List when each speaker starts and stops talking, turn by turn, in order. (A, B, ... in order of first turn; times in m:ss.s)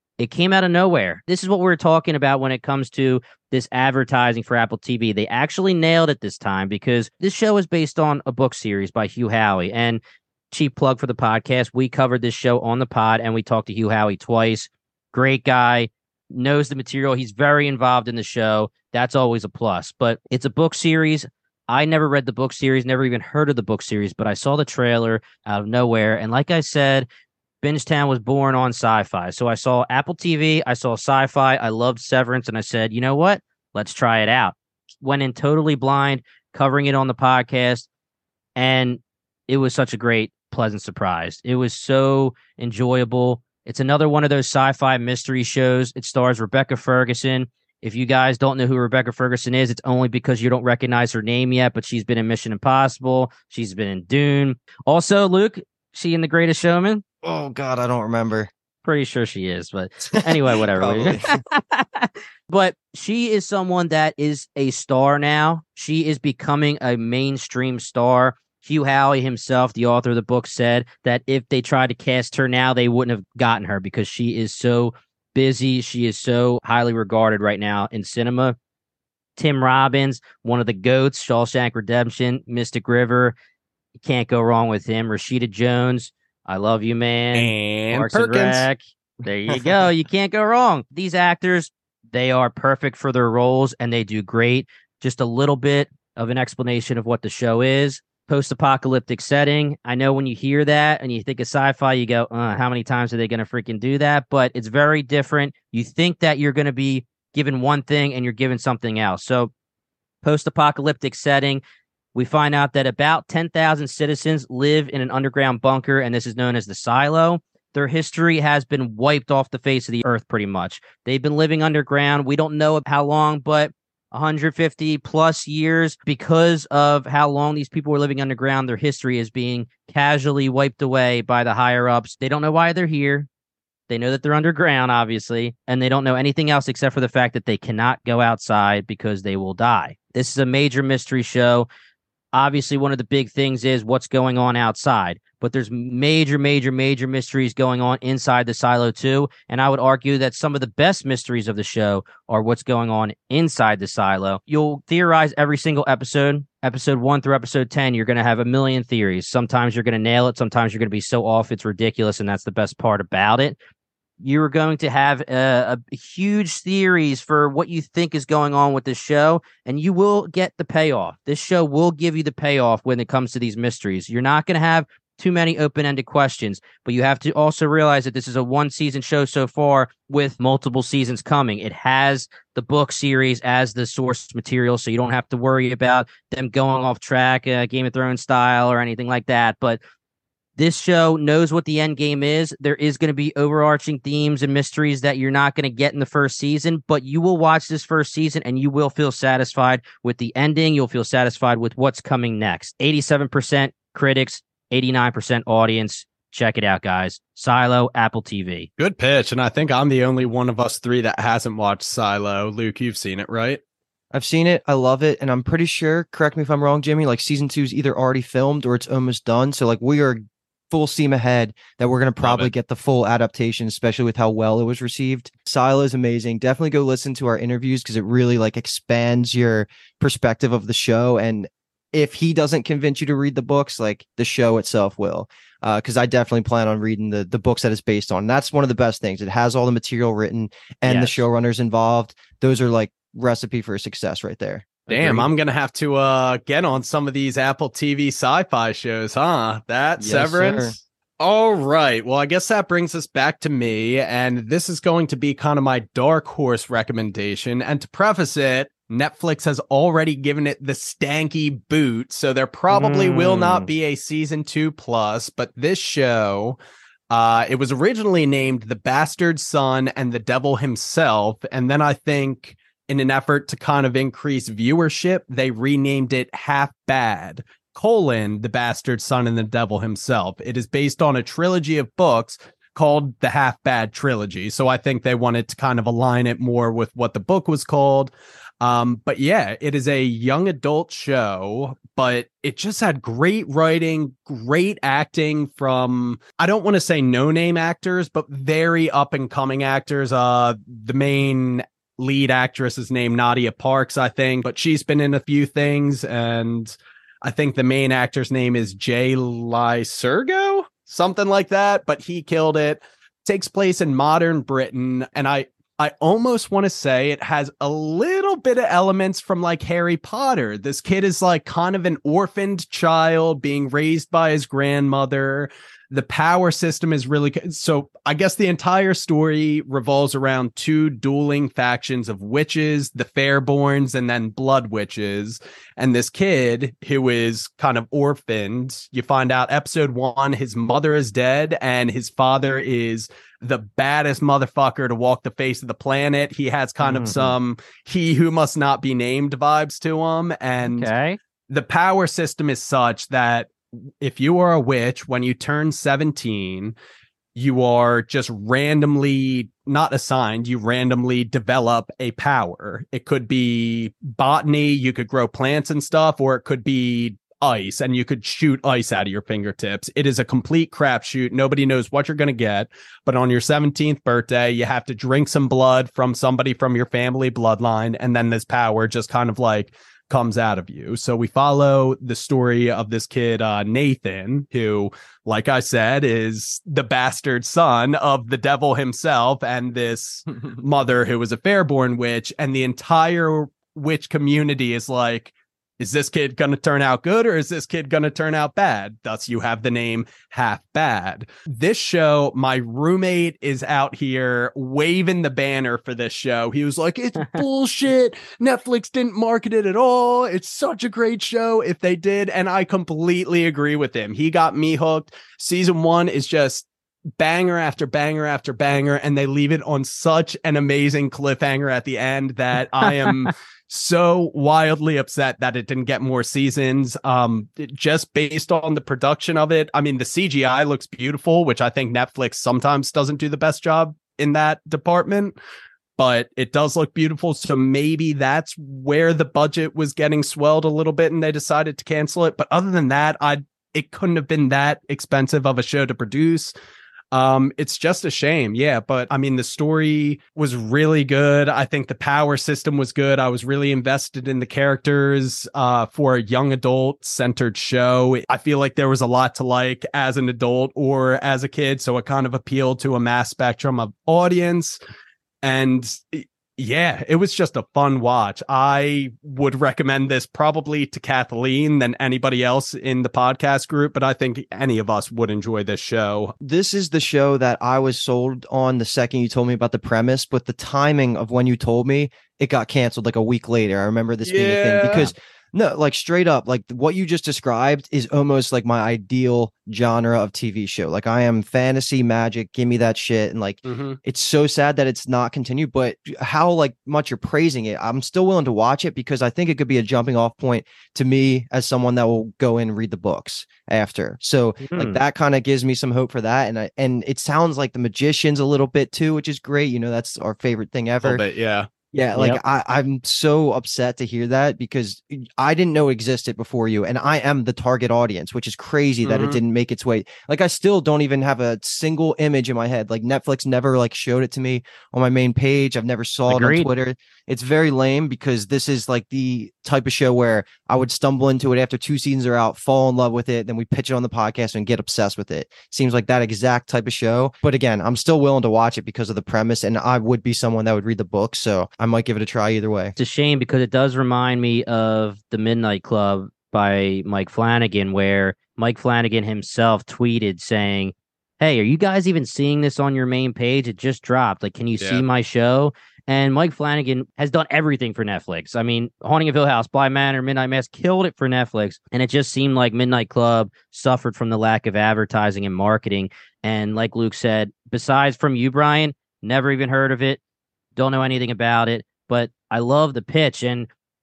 0:00.2-0:27.1 A
0:27.6-0:37.9 A
0:38.6-0:57.0 A
0:57.2-0:58.5 B
0:58.8-1:18.6 A
1:00.1-1:01.4 B
1:19.4-1:23.4 A
1:24.0-1:49.5 A
1:27.3-1:28.6 C
1:50.2-1:51.6 A
1:52.1-2:13.3 A
2:13.9-2:21.7 A
2:22.3-2:43.6 A
2:44.2-3:09.8 A
3:10.6-3:28.7 A
3:28.8-3:33.6 C
3:34.1-4:05.3 B
3:42.2-3:42.5 C
4:00.8-4:01.2 A
4:04.9-4:26.6 C
4:10.0-4:10.8 B
4:22.7-4:23.7 A
4:27.1-4:48.1 C
4:48.6-5:50.9 C
5:46.8-5:47.4 A
5:50.6-5:51.2 A
5:51.5-5:56.7 C
5:57.4-6:56.7 C
6:57.2-7:15.4 C
7:02.9-7:03.1 A
7:16.0-7:26.5 C
7:27.1-7:44.8 C
7:45.4-7:56.3 C
7:56.4-8:31.2 B
8:04.2-8:05.1 C
8:13.6-8:14.0 C
8:24.6-8:25.0 A
8:31.0-8:31.7 C
8:31.9-9:02.9 B
8:39.0-8:39.4 C
8:46.3-8:46.7 A
9:03.0-9:30.2 A
9:30.8-9:33.7 A